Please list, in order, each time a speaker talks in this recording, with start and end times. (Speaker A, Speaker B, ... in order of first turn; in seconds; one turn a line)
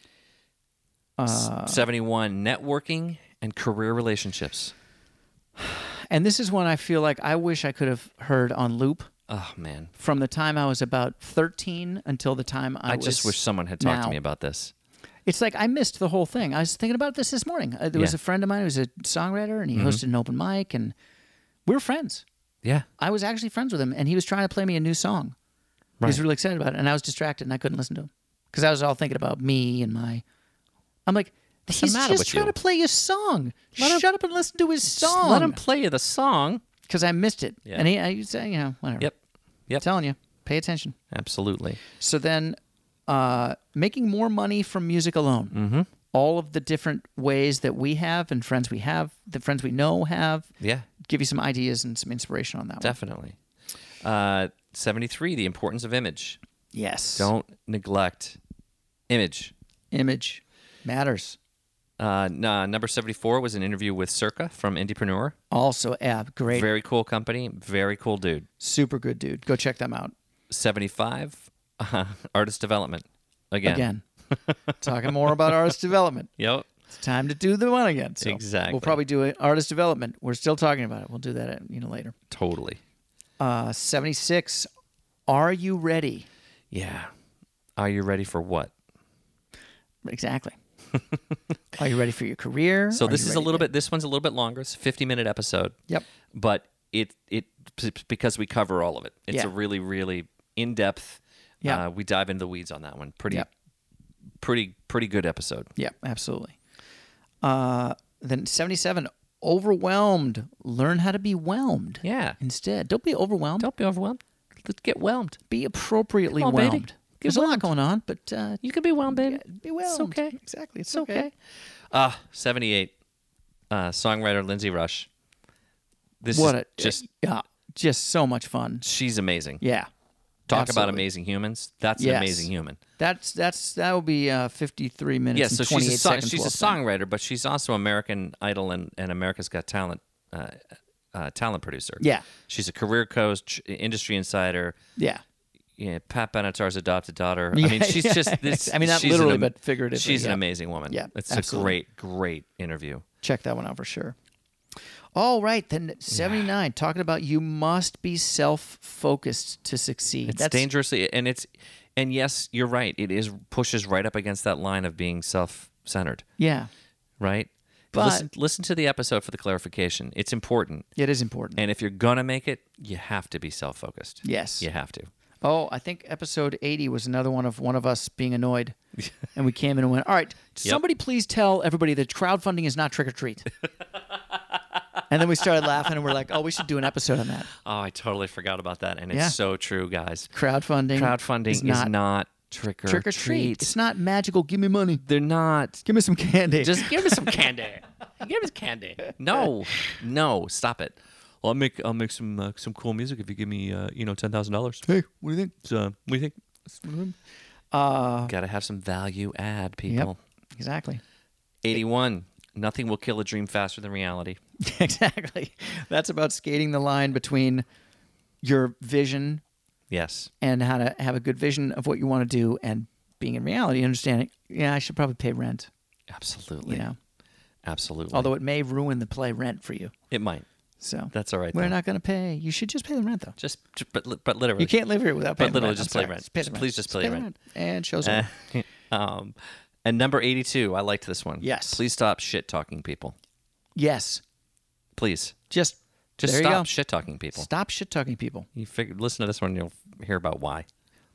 Speaker A: 1.2-1.8
Speaker B: 1.3-4.7
Speaker A: 5.5-9.1
Speaker B: 9.3-9.9
Speaker A: 9.9-14.2
Speaker B: 12.9-14.7
Speaker A: 15.2-20.9
Speaker B: 19.7-20.0
Speaker A: 21.6-22.2
Speaker A: 23.0-25.3
Speaker A: 26.0-30.2
Speaker A: 31.1-35.6
Speaker B: 31.7-32.5
Speaker B: 33.8-34.0
Speaker B: 34.9-36.6
Speaker A: 36.9-39.1
Speaker A: 39.8-41.0
Speaker B: 41.1-41.8
Speaker A: 41.9-45.5
Speaker B: 45.5-45.9
Speaker A: 46.1-50.5
Speaker B: 50.6-50.9
Speaker A: 51.0-53.0
Speaker B: 52.8-53.4
Speaker B: 54.0-56.4
Speaker A: 56.7-57.3
Speaker B: 57.2-58.4
Speaker B: 59.1-59.5
Speaker A: 59.9-61.4
Speaker B: 62.0-65.3
Speaker A: 65.5-66.7
Speaker B: 66.5-68.5
Speaker A: 68.6-70.1
Speaker B: 70.5-75.7
Speaker A: 73.6-74.0
Speaker A: 74.8-76.3
Speaker B: 76.4-76.7
Speaker A: 76.9-82.1
Speaker B: 78.2-79.0
Speaker B: 82.3-82.8
Speaker A: 83.4-84.7
Speaker A: 85.3-86.3
Speaker B: 86.7-87.1
Speaker B: 87.8-88.7
Speaker A: 90.0-90.5
Speaker A: 91.7-93.7
Speaker B: 92.9-95.8
Speaker B: 96.3-103.5
Speaker B: 104.4-105.7
Speaker A: 105.8-106.6
Speaker A: 107.4-113.7
Speaker B: 112.0-112.4
Speaker B: 113.6-115.4
Speaker A: 115.5-121.3
Speaker B: 116.3-117.7
Speaker B: 118.6-120.4
Speaker B: 120.9-121.3
Speaker B: 121.9-122.9
Speaker B: 123.7-125.1
Speaker B: 126.2-127.0
Speaker A: 126.3-128.8
Speaker B: 128.8-129.6
Speaker A: 129.6-129.9
Speaker B: 130.5-132.8
Speaker A: 130.5-131.1
Speaker A: 132.0-136.8
Speaker B: 135.3-144.8
Speaker A: 142.0-142.2
Speaker A: 145.0-145.2
Speaker B: 145.8-153.0
Speaker A: 147.5-151.7
Speaker A: 153.2-154.2
Speaker A: 155.1-160.7
Speaker B: 160.2-166.2
Speaker A: 166.4-166.7
Speaker B: 167.2-170.9
Speaker A: 167.9-168.3
Speaker A: 171.0-171.6
Speaker B: 171.6-175.1
Speaker A: 174.2-174.7
Speaker A: 175.4-178.8
Speaker A: 179.3-183.5
Speaker A: 185.1-187.5
Speaker B: 187.5-190.3
Speaker A: 190.3-191.9
Speaker B: 190.9-193.7
Speaker A: 192.8-195.0
Speaker B: 195.0-195.8
Speaker A: 195.8-197.4
Speaker B: 196.6-204.8
Speaker A: 204.8-205.5
Speaker B: 205.6-206.3
Speaker A: 206.7-207.2
Speaker A: 207.7-208.3
Speaker B: 208.3-210.2
Speaker A: 209.9-211.0
Speaker B: 211.6-214.4
Speaker A: 214.6-217.6
Speaker A: 218.4-219.4
Speaker B: 219.9-220.3
Speaker A: 220.4-225.7
Speaker B: 226.1-226.9
Speaker A: 226.6-227.0
Speaker B: 227.6-228.3
Speaker A: 228.1-229.9
Speaker B: 230.1-230.4
Speaker A: 230.8-233.4
Speaker B: 231.1-231.7
Speaker B: 233.4-234.7
Speaker A: 234.6-238.3
Speaker B: 235.3-237.3
Speaker B: 238.0-243.2
Speaker A: 241.4-241.8
Speaker A: 243.8-244.2
Speaker B: 244.9-245.3
Speaker A: 245.5-246.7
Speaker B: 246.2-247.5
Speaker A: 247.3-248.5
Speaker B: 248.5-250.7